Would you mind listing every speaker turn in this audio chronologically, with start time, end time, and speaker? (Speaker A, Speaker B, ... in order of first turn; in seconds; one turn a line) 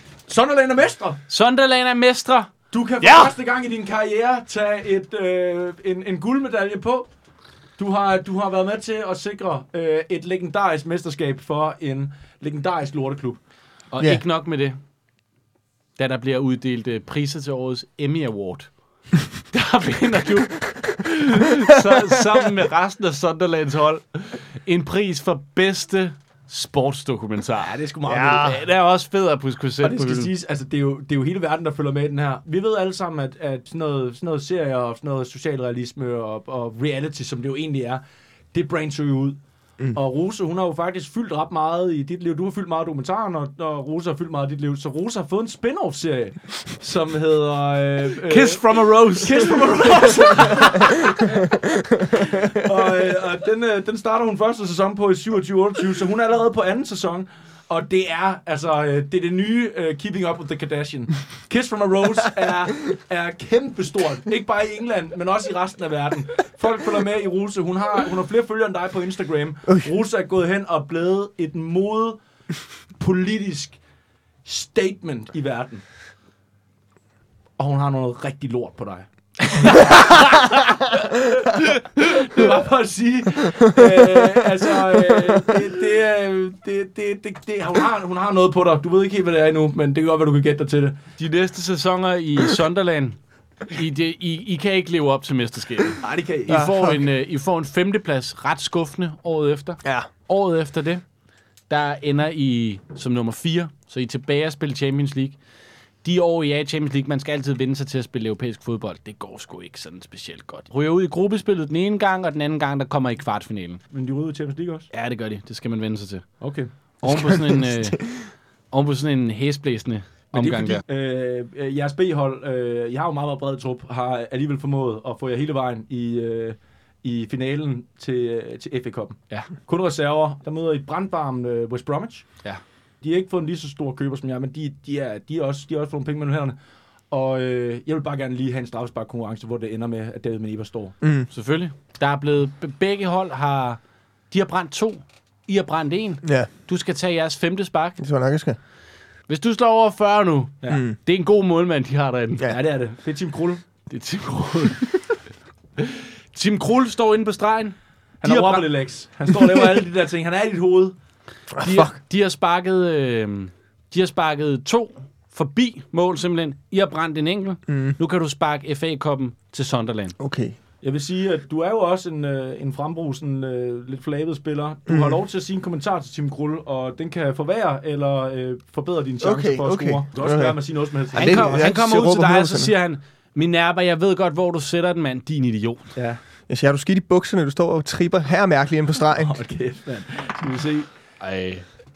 Speaker A: 0.3-1.2
Speaker B: 1.3-2.5
Speaker A: 2.7-7.1
Speaker C: 3.0-3.3
Speaker A: 7.8-13.4
Speaker B: 13.9-14.8
Speaker B: 16.0-18.7
Speaker B: 19.5-30.3
Speaker A: 27.6-28.6
Speaker C: 28.1-28.5
Speaker A: 29.8-38.0
Speaker A: 38.5-39.4
Speaker A: 39.9-51.5
Speaker B: 48.2-50.9
Speaker A: 52.1-72.2
Speaker A: 73.0-73.8
Speaker A: 74.4-75.8
Speaker A: 77.6-91.0
Speaker B: 79.8-80.2
Speaker C: 83.6-84.4
Speaker C: 85.1-85.4
Speaker B: 91.2-93.2
Speaker B: 93.7-101.0
Speaker A: 96.0-96.7
Speaker C: 96.5-97.0
Speaker B: 101.7-105.4
Speaker B: 106.0-113.8
Speaker A: 113.9-114.9
Speaker B: 114.9-116.3
Speaker A: 116.4-116.7
Speaker B: 117.0-118.0
Speaker C: 117.0-118.2
Speaker B: 118.7-120.8
Speaker A: 120.3-132.3
Speaker A: 133.0-136.6
Speaker A: 137.1-140.9
Speaker C: 141.0-141.3
Speaker B: 141.3-143.8
Speaker B: 144.3-148.0
Speaker C: 146.2-146.5
Speaker C: 148.0-148.6
Speaker B: 149.3-152.5
Speaker C: 150.7-150.9
Speaker A: 152.5-153.6
Speaker B: 153.9-155.0
Speaker B: 155.8-157.7
Speaker A: 158.2-160.9
Speaker B: 158.3-158.6
Speaker C: 161.5-162.0
Speaker B: 161.6-170.1
Speaker C: 167.7-167.9
Speaker C: 170.2-170.6
Speaker A: 170.8-181.7
Speaker C: 174.9-175.2
Speaker C: 179.2-180.6
Speaker C: 181.1-182.7
Speaker B: 181.1-185.9
Speaker C: 186.5-189.4
Speaker A: 189.1-190.9
Speaker B: 191.2-191.6